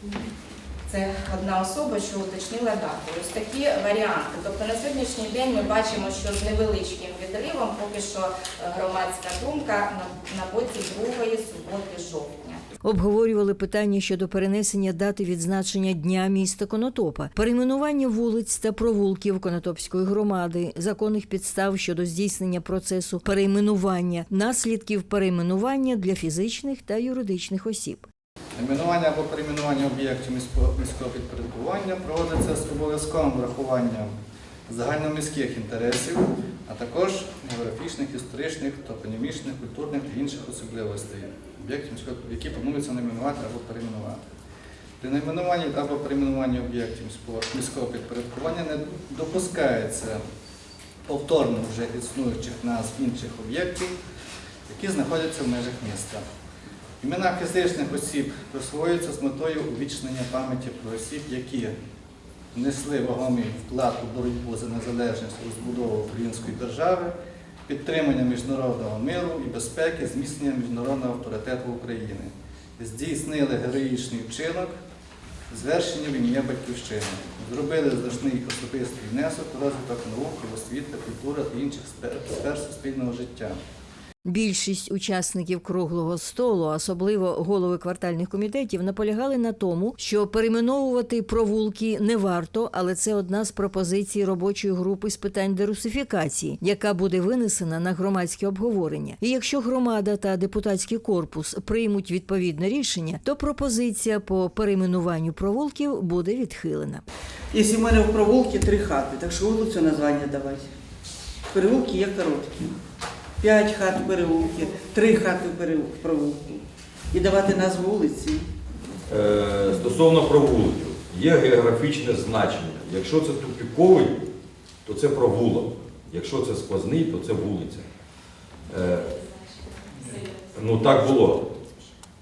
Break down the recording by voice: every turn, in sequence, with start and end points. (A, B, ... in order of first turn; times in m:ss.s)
0:00.9-0:12.6 A
0:12.8-0:28.1 B
0:28.6-0:34.1 C
0:34.7-0:44.2 C
0:45.0-0:50.2 C
0:51.1-0:54.0 C
0:54.7-0:56.2 C
0:57.0-1:01.7 C
1:02.5-1:07.1 C
1:07.7-1:14.7 C
1:15.5-1:23.6 C
1:24.2-1:47.0 B
1:47.5-1:50.7 D
1:51.5-1:52.7 D
1:53.4-1:56.6 D
1:57.1-1:58.5 D
1:59.1-2:04.2 E
2:04.9-2:07.8 E
2:08.7-2:09.1 E
2:10.5-2:11.5 E